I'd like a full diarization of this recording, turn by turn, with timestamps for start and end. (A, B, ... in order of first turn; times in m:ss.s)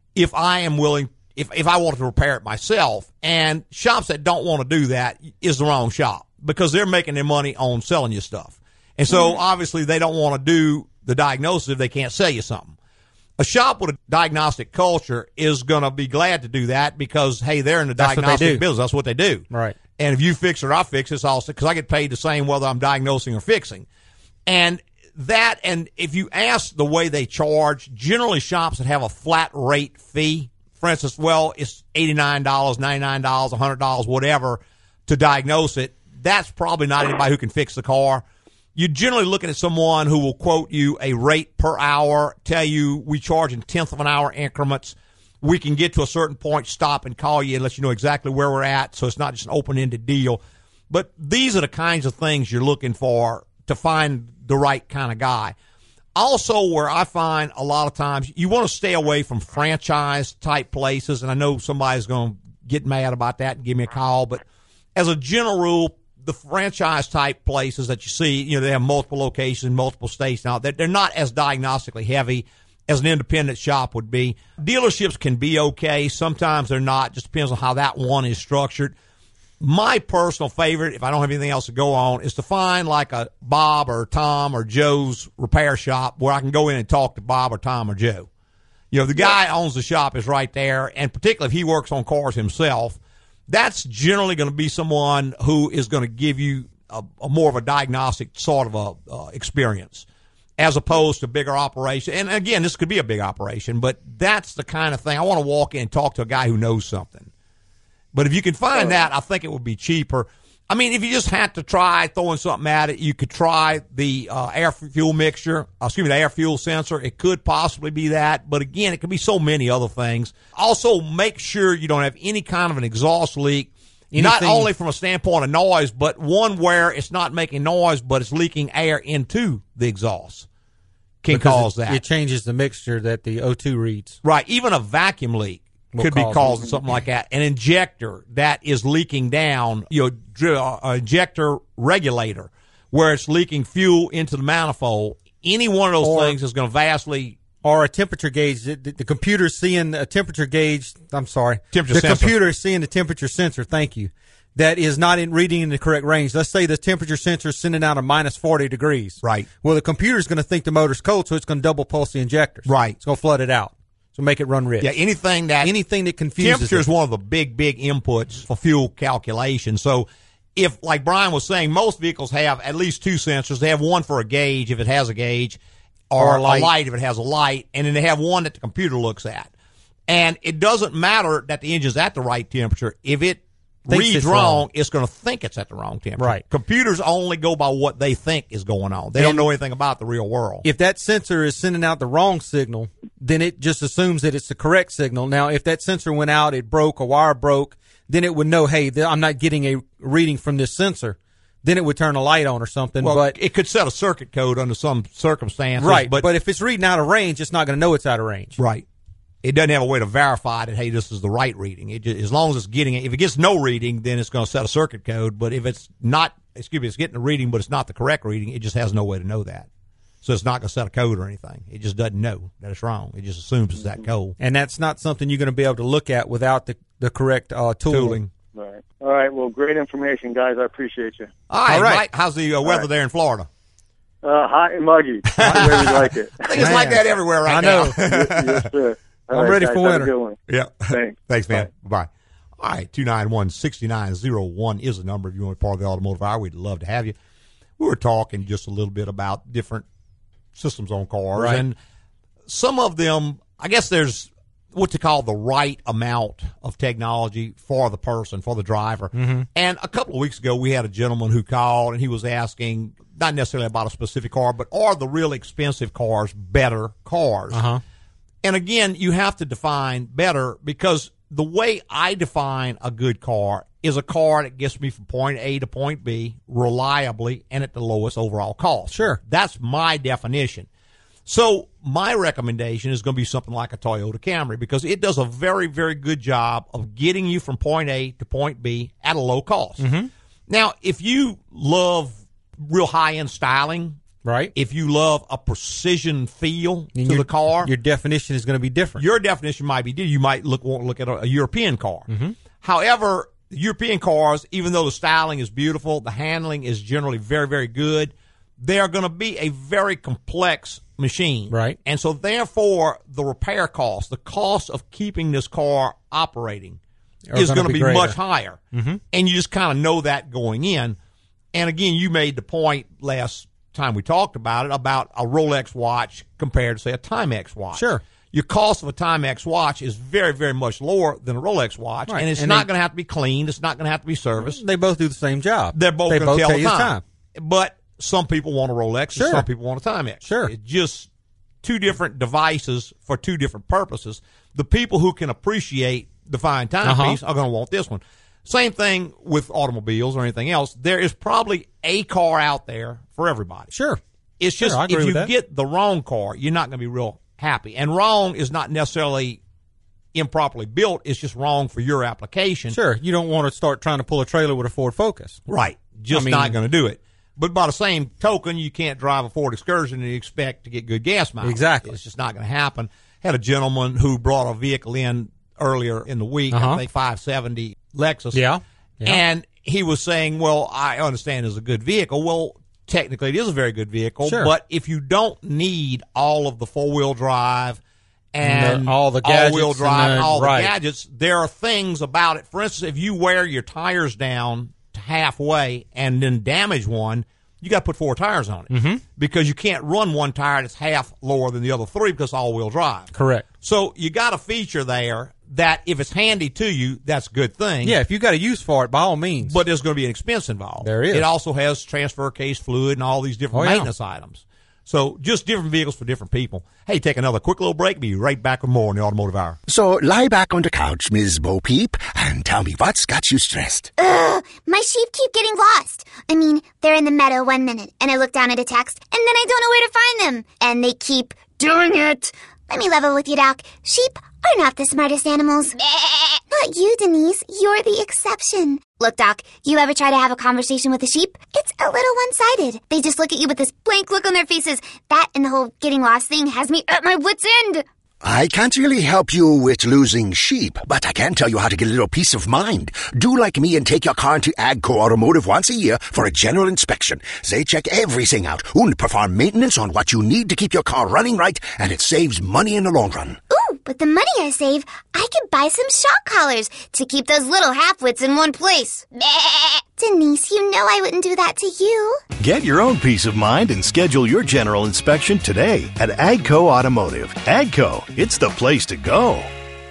0:00.1-0:12.7 A
0:13.4-0:19.4 A
0:18.0-0:18.6 B
0:19.5-0:19.8 B
0:20.0-0:23.8 A
0:24.4-0:38.2 A
0:38.7-0:55.5 A
0:56.1-1:04.4 A
1:04.9-1:18.9 A
1:19.6-1:28.3 A
1:28.9-1:40.1 A
1:40.6-1:47.3 A
1:48.1-2:10.5 A
2:04.1-2:04.7 B
2:11.2-2:12.0 A
2:11.3-2:14.2 B
2:14.2-2:27.4 A
2:15.9-2:16.7 B
2:26.0-2:26.4 B
2:27.6-2:44.9 B
2:31.7-2:32.4 A
2:39.2-2:39.5 A
2:42.6-2:43.0 A
2:44.8-2:45.7 A
2:45.6-2:46.8 B
2:46.4-2:55.6 A
2:56.1-2:59.5 A
2:56.2-2:56.7 B
3:00.1-3:10.6 A
3:03.9-3:04.6 B
3:09.2-3:09.5 B
3:10.6-3:23.3 B
3:23.0-3:26.3 A
3:25.8-3:28.6 B
3:28.6-3:28.8 A
3:29.4-3:39.7 A
3:40.2-3:44.4 A
3:44.4-3:48.2 B
3:47.9-3:48.3 A
3:48.5-3:51.3 C
3:51.5-3:53.5 A
3:51.7-3:52.0 B
3:54.2-3:56.7 C
3:55.3-3:58.7 A
3:55.4-3:55.8 B
3:56.6-3:58.0 B
3:57.7-4:01.6 C
3:59.3-4:00.1 B
4:00.5-4:07.1 A
4:07.8-4:09.8 A
4:10.5-4:11.8 A
4:11.4-4:11.6 B
4:12.4-4:27.6 A
4:19.1-4:19.5 B
4:27.5-4:27.8 B
4:28.4-4:40.7 A
4:38.9-4:39.2 B
4:41.2-4:49.8 A
4:49.8-4:50.1 B
4:50.5-4:54.0 A
4:54.2-4:54.5 B
4:54.5-4:57.7 A
4:57.0-4:59.0 B
4:59.0-5:02.1 A
5:02.1-5:02.4 B
5:02.6-5:16.8 A
5:11.5-5:11.8 B
5:17.3-5:18.2 B
5:17.3-5:18.6 A
5:18.7-5:19.0 B
5:19.1-5:21.0 A
5:21.5-5:34.6 A
5:27.7-5:28.0 B
5:32.1-5:32.7 B
5:34.4-5:37.0 B
5:35.7-5:41.1 A
5:39.2-5:39.4 B
5:40.2-5:40.5 B
5:41.6-5:53.7 A
5:46.8-5:47.2 B
5:53.7-5:54.0 B
5:54.4-5:59.4 A
5:54.6-5:55.3 B
6:00.1-6:02.8 A
6:02.7-6:05.4 B
6:05.5-6:18.4 A
6:06.1-6:06.6 B
6:11.4-6:12.0 B
6:16.5-6:16.8 B
6:18.3-6:19.2 B
6:19.0-6:27.8 A
6:24.2-6:24.5 B
6:28.3-6:48.0 A
6:28.4-6:30.7 B
6:38.7-6:39.0 B
6:43.1-6:43.4 B
6:47.8-6:49.6 B
6:49.4-6:59.6 A
6:50.8-6:51.3 B
6:53.5-6:53.9 B
6:59.7-7:03.9 D
7:04.0-7:27.8 E
7:28.2-7:43.4 D
7:43.5-7:52.2 E
7:52.4-7:59.5 F